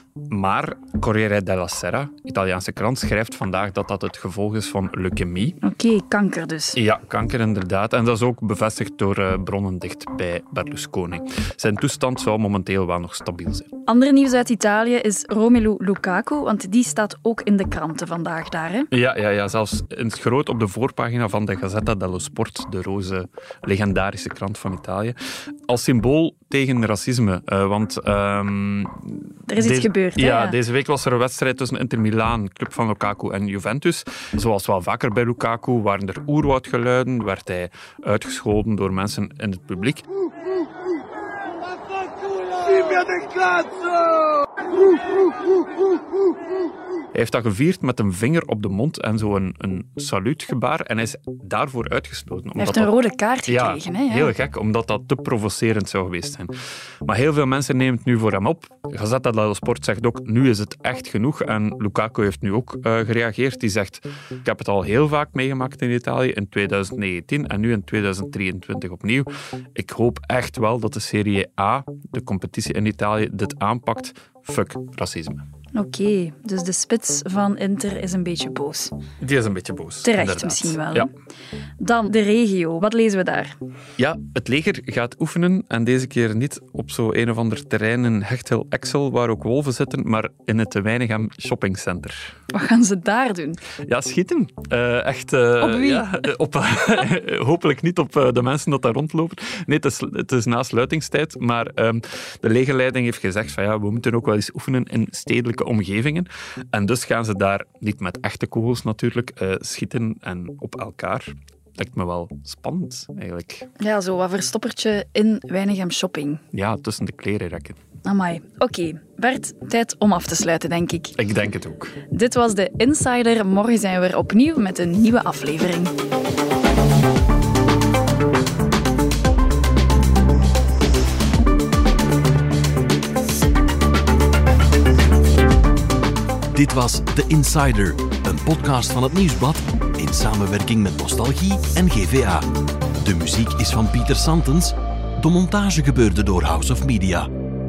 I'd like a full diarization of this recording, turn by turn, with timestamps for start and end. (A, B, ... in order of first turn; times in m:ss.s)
0:00.3-0:05.6 A
0:05.6-0:06.8 B
0:06.8-0:13.7 A
0:13.9-0:18.9 B
0:18.9-0:25.2 A
0:25.7-0:40.0 A
0:29.5-0:30.6 B
0:47.1-0:52.9 A
0:52.6-0:54.3 B
0:53.5-0:56.5 A
0:57.0-1:15.4 A
1:15.8-1:18.9 B
1:19.2-1:21.1 A
1:20.0-1:21.1 B
1:21.8-1:23.6 B
1:24.0-1:32.3 A
1:32.5-1:33.6 B
1:33.9-1:53.7 A
1:35.6-1:36.1 B
1:53.8-1:56.4 B
1:56.5-1:57.8 A
1:58.0-2:01.1 B
2:01.2-2:01.9 A
2:02.1-2:05.9 B
2:16.5-2:22.5 C
2:23.0-2:27.3 C